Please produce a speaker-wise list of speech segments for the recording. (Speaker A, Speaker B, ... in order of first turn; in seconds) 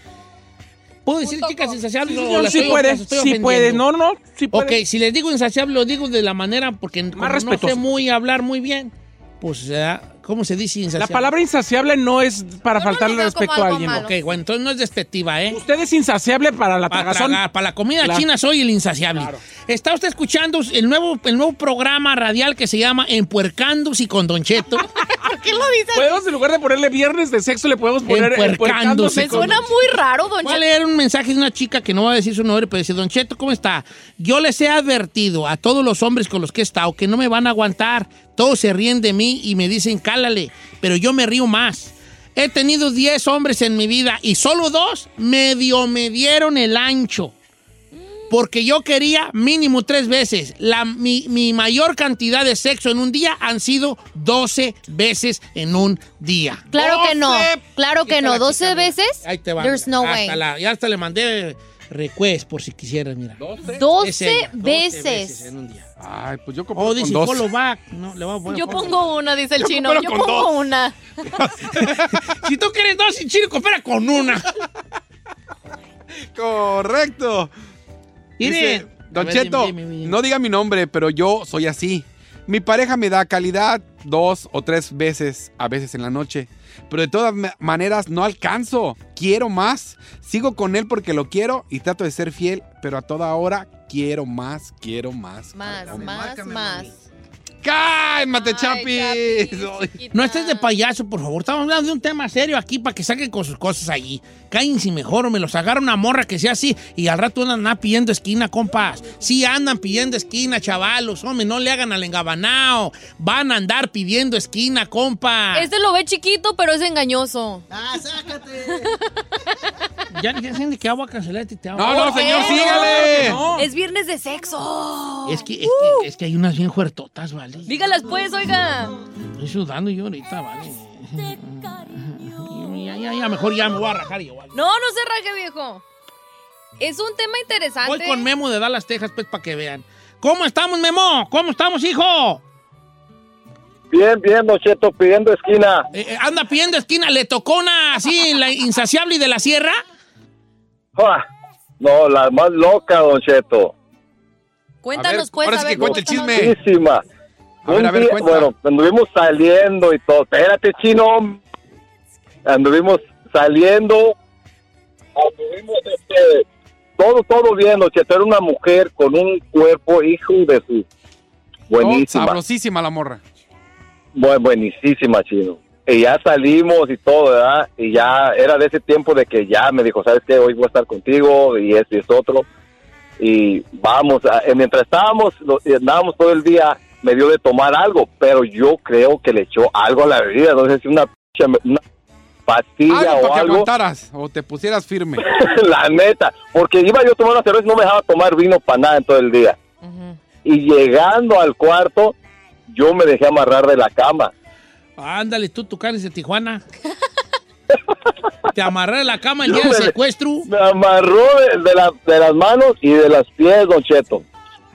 Speaker A: 1.1-3.9, 4.5-11.3, 14.0-15.6, 16.9-24.9, 28.1-29.7, 30.4-47.4, 48.3-56.8, 58.0-63.4, 64.0-65.9, 66.8-69.0, 71.3-74.5, 78.4-80.2, 100.1-115.7, 120.1-123.1, 125.3-127.8, 129.4-134.6, 137.8-142.4, 145.9-149.8, 205.0-206.6, 208.6-210.5
Speaker B: 1.2-3.0, 12.7-14.1, 25.2-26.2, 29.0-30.6, 56.7-60.4, 63.8-65.5, 68.5-71.4, 95.5-96.9, 98.3-100.7, 115.5-117.7, 118.6-119.0, 121.8-126.1, 127.7-129.0, 134.5-135.8, 136.8-138.2, 154.8-156.5, 199.8-200.2
Speaker C: 2.1-4.8, 7.2-7.8, 11.0-14.1, 15.5-17.4, 25.9-29.6, 123.1-123.7
Speaker D: 56.7-57.6, 63.4-63.9, 66.0-67.5, 69.6-70.6, 71.8-72.1, 76.3-77.5, 78.4-96.9, 97.6-100.0, 121.8-123.4, 154.9-156.5, 157.7-158.5, 171.8-173.2, 192.9-195.2
Speaker E: 143.9-145.9, 151.0-151.2, 151.8-153.7, 156.0-157.1, 157.7-161.4, 162.5-164.2, 165.2-166.5, 167.0-170.9, 171.7-172.4, 174.2-182.5, 183.2-191.8, 192.5-193.7, 195.3-199.6, 200.4-202.2, 202.7-204.3, 209.5-209.9, 210.5-214.3